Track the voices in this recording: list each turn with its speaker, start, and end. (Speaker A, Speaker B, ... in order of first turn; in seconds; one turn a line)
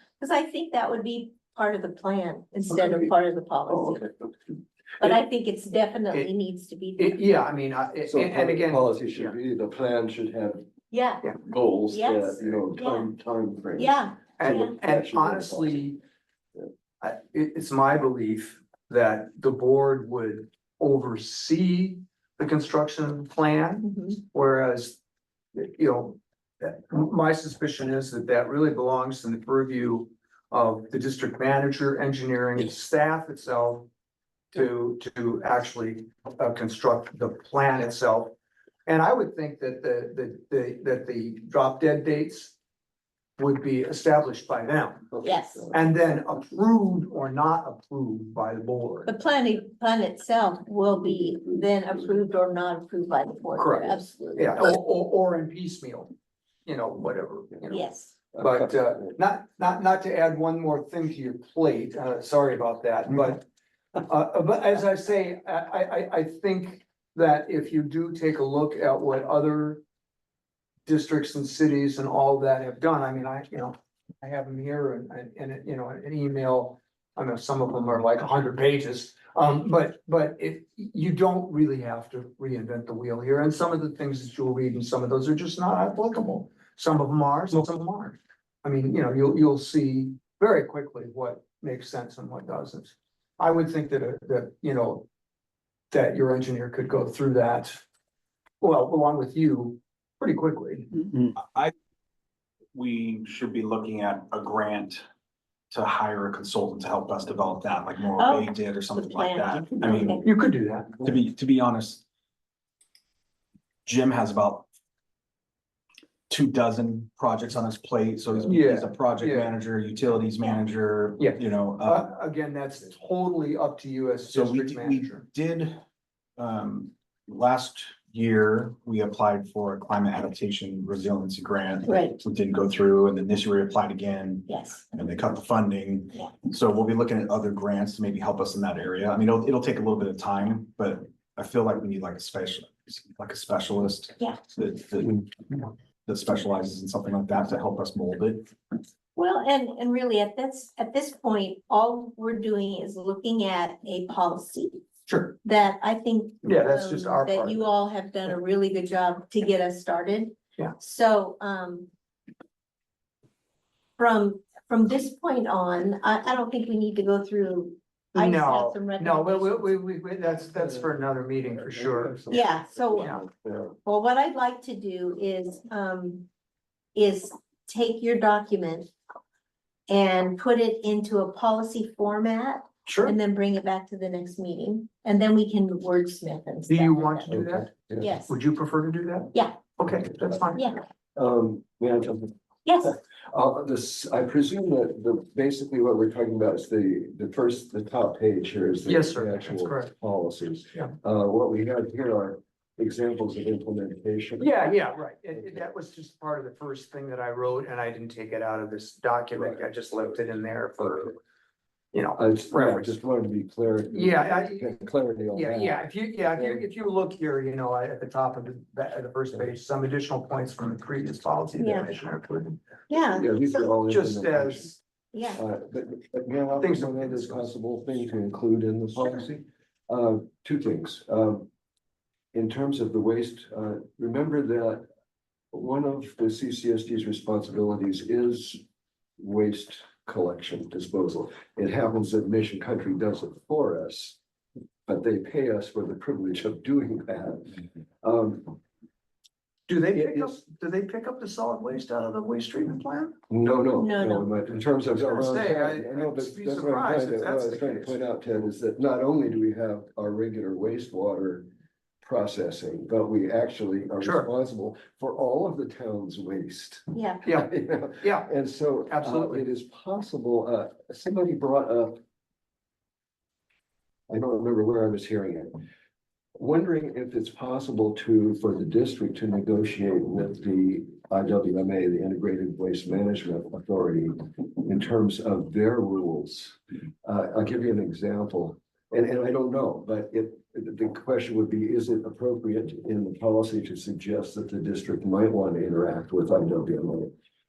Speaker A: 0.2-4.1
Speaker B: 3.7-4.0
Speaker A: 5.0-7.2
Speaker C: 7.0-9.3
Speaker B: 8.1-10.6
Speaker A: 10.9-11.2
Speaker B: 11.4-15.8
Speaker A: 11.9-13.1
Speaker A: 13.8-14.7
Speaker C: 14.4-16.0
Speaker C: 17.0-25.0
Speaker A: 23.8-24.2
Speaker C: 25.5-33.9
Speaker C: 34.5-38.3
Speaker C: 38.9-42.5
Speaker C: 43.4-45.1
Speaker A: 45.2-45.7
Speaker C: 45.7-49.1
Speaker A: 49.1-54.1
Speaker C: 53.6-56.1
Speaker B: 54.1-54.5
Speaker C: 56.6-57.8
Speaker A: 57.7-58.1
Speaker C: 58.4-69.8
Speaker C: 70.8-95.1
Speaker C: 95.9-97.8
Speaker C: 98.6-100.9
Speaker D: 101.1-101.7
Speaker D: 102.7-105.0
Speaker D: 105.7-110.2
Speaker A: 108.2-110.3
Speaker C: 110.2-111.0
Speaker D: 111.0-112.0
Speaker D: 113.8-114.7
Speaker D: 116.3-122.1
Speaker C: 118.4-119.5
Speaker C: 121.2-125.2
Speaker D: 124.2-125.8
Speaker D: 126.4-148.4
Speaker A: 131.8-132.2
Speaker A: 134.5-134.8
Speaker A: 149.2-154.8
Speaker C: 155.1-155.3
Speaker A: 155.4-161.9
Speaker C: 156.4-157.7
Speaker A: 164.0-169.8
Speaker C: 168.1-172.3
Speaker B: 170.3-173.8
Speaker A: 172.3-173.2
Speaker A: 173.8-176.3
Speaker A: 176.9-178.9
Speaker A: 179.9-187.4
Speaker C: 182.8-183.2
Speaker C: 186.7-187.7
Speaker B: 187.3-188.1
Speaker A: 188.0-188.3
Speaker C: 188.3-190.7
Speaker A: 189.3-189.6
Speaker A: 190.5-190.8
Speaker B: 191.2-192.3
Speaker A: 192.6-193.0
Speaker B: 193.3-204.5
Speaker C: 198.8-199.9
Speaker C: 204.4-211.2
Speaker B: 205.3-205.6
Speaker C: 211.9-213.0
Speaker B: 212.2-216.6
Speaker C: 213.9-214.8
Speaker C: 215.3-222.6
Speaker A: 221.6-221.9
Speaker A: 222.9-223.7
Speaker B: 223.1-224.7
Speaker C: 223.9-224.8
Speaker A: 225.1-225.4
Speaker B: 225.3-231.5
Speaker C: 226.6-227.5
Speaker B: 232.3-234.8
Speaker B: 235.5-238.6
Speaker B: 239.2-244.2
Speaker B: 244.9-248.6
Speaker C: 249.7-253.2
Speaker B: 249.9-250.3
Speaker B: 253.3-261.4
Speaker A: 253.7-254.3
Speaker C: 254.9-258.0
Speaker B: 262.0-272.0
Speaker C: 264.0-264.3
Speaker A: 266.9-267.2
Speaker C: 267.2-267.5
Speaker C: 268.0-268.3
Speaker C: 268.9-269.4
Speaker B: 274.1-275.6
Speaker B: 276.4-297.1